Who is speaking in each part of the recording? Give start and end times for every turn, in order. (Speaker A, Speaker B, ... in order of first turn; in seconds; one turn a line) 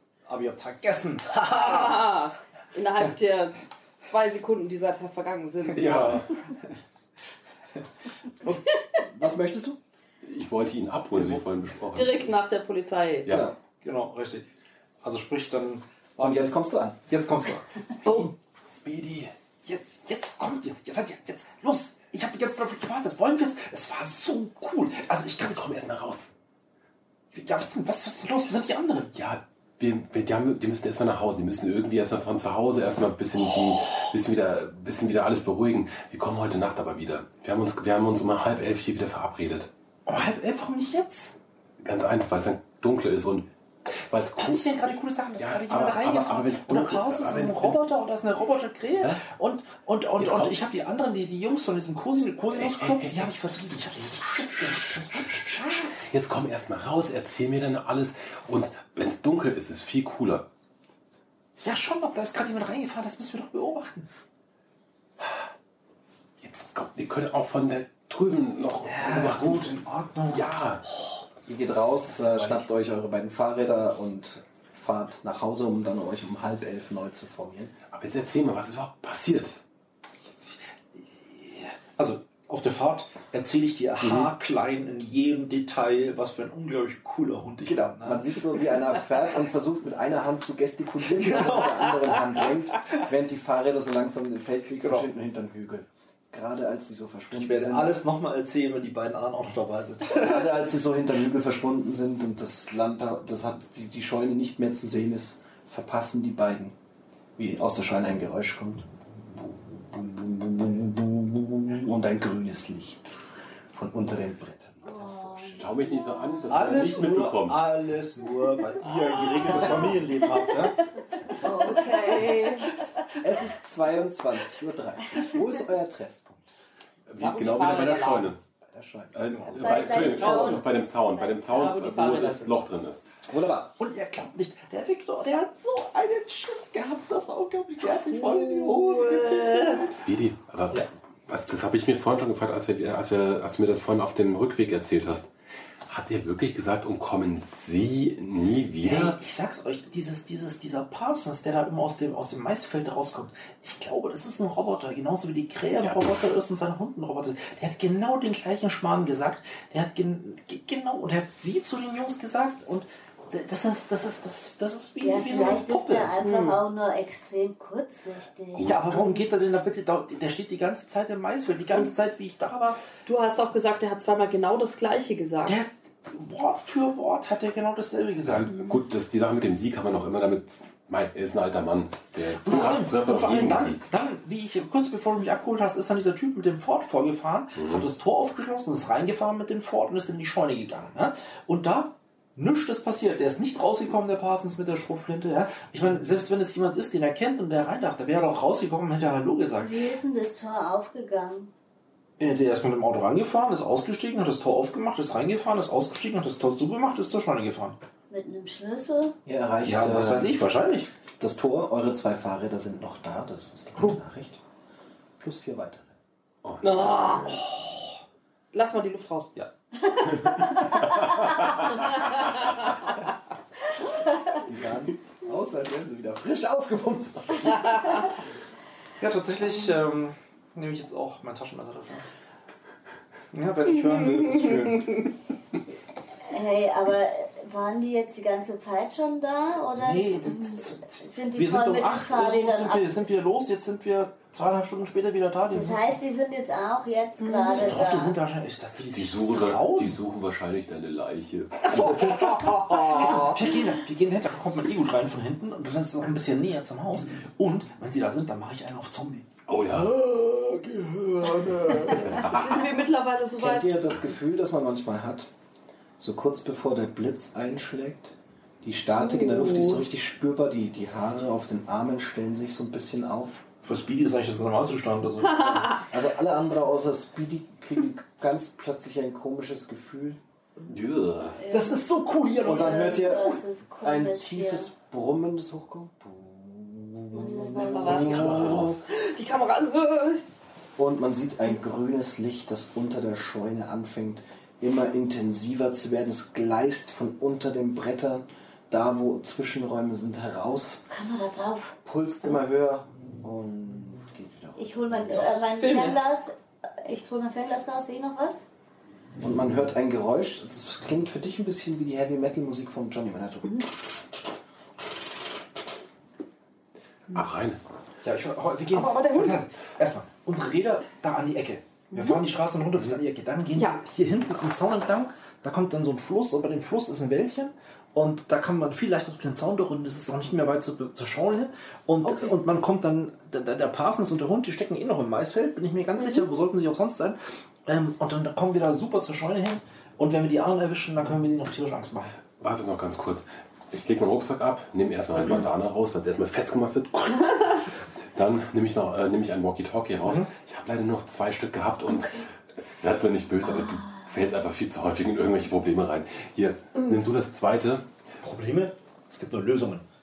Speaker A: 0.3-2.1
Speaker B: 1.5-6.0
Speaker A: 5.8-6.2
Speaker C: 5.8-6.4
Speaker D: 9.0-9.8
Speaker C: 10.2-12.3
Speaker A: 11.1-11.4
Speaker B: 11.9-13.4
Speaker D: 13.3-13.6
Speaker A: 13.8-14.5
Speaker A: 15.0-18.3
Speaker D: 16.2-17.0
Speaker B: 18.0-18.3
Speaker C: 18.7-19.3
Speaker A: 19.6-25.6
Speaker C: 25.4-26.3
Speaker A: 27.3-29.1
Speaker C: 29.1-39.7
Speaker A: 40.1-41.4
Speaker C: 41.8-44.6
Speaker A: 44.4-56.1
Speaker C: 45.4-47.8
Speaker C: 49.0-49.2
Speaker C: 50.2-50.5
Speaker C: 52.5-53.3
Speaker C: 55.8-60.5
Speaker A: 61.6-64.1
Speaker C: 66.4-70.8
Speaker A: 68.8-70.5
Speaker D: 71.5-77.7
Speaker A: 71.8-72.7
Speaker C: 77.9-79.6
Speaker A: 81.2-88.3
Speaker C: 84.0-84.3
Speaker D: 87.9-98.0
Speaker A: 91.2-92.2
Speaker A: 97.3-100.3
Speaker D: 100.1-106.8
Speaker D: 107.4-113.2
Speaker D: 113.7-115.1
Speaker E: 114.9-116.4
Speaker C: 115.4-117.7
Speaker A: 116.5-120.9
Speaker B: 121.4-122.8
Speaker E: 121.4-122.8
Speaker D: 123.2-126.5
Speaker C: 127.1-128.4
Speaker B: 127.2-128.3
Speaker D: 128.7-129.2
Speaker C: 129.2-133.0
Speaker A: 129.2-130.2
Speaker E: 129.6-131.3
Speaker B: 130.2-130.6
Speaker B: 131.5-132.6
Speaker D: 133.3-133.8
Speaker A: 133.8-140.1
Speaker B: 138.1-139.9
Speaker C: 140.0-145.3
Speaker C: 145.9-149.2
Speaker A: 148.8-166.1
Speaker C: 155.8-156.2
Speaker E: 165.0-168.8
Speaker B: 165.3-165.6
Speaker B: 166.2-166.6
Speaker A: 168.6-172.8
Speaker B: 173.0-175.6
Speaker A: 175.5-178.6
Speaker C: 178.2-183.8
Speaker A: 182.4-199.9
Speaker C: 187.6-187.9
Speaker E: 199.6-201.5
Speaker A: 202.2-207.8
Speaker E: 208.1-209.2
Speaker D: 209.3-210.4
Speaker A: 209.6-210.9
Speaker D: 211.2-214.4
Speaker D: 215.2-216.0
Speaker C: 216.4-217.4
Speaker B: 216.6-217.7
Speaker B: 218.5-219.4
Speaker B: 219.9-220.5
Speaker D: 224.3-228.0
Speaker A: 229.0-232.1
Speaker A: 233.3-235.1
Speaker E: 236.3-242.9
Speaker A: 239.8-245.9
Speaker E: 245.5-248.2
Speaker B: 247.2-247.8
Speaker A: 247.4-250.0
Speaker C: 248.9-252.4
Speaker B: 251.7-253.6
Speaker A: 251.8-259.3
Speaker C: 259.5-259.9
Speaker D: 259.8-262.2
Speaker C: 261.8-262.7
Speaker B: 262.0-263.8
Speaker D: 263.4-265.3
Speaker D: 266.0-273.4
Speaker B: 269.0-269.8
Speaker A: 273.7-275.9
Speaker D: 275.9-280.2
Speaker C: 280.7-281.4
Speaker E: 281.4-281.9
Speaker A: 281.5-283.1
Speaker E: 282.4-284.7
Speaker D: 282.4-288.8
Speaker E: 287.1-288.5
Speaker B: 287.4-290.2
Speaker C: 287.9-288.9
Speaker D: 290.8-300.9
Speaker E: 300.9-301.8
Speaker D: 301.9-305.4
Speaker E: 304.6-308.5
Speaker B: 305.5-306.0
Speaker D: 309.2-313.7
Speaker C: 317.1-317.6
Speaker A: 318.0-342.2
Speaker B: 318.7-319.4
Speaker B: 321.9-322.2
Speaker B: 323.6-323.8
Speaker B: 332.0-332.4
Speaker B: 336.0-336.2
Speaker C: 342.4-357.9
Speaker E: 353.4-354.1
Speaker B: 356.8-357.0
Speaker A: 358.2-359.9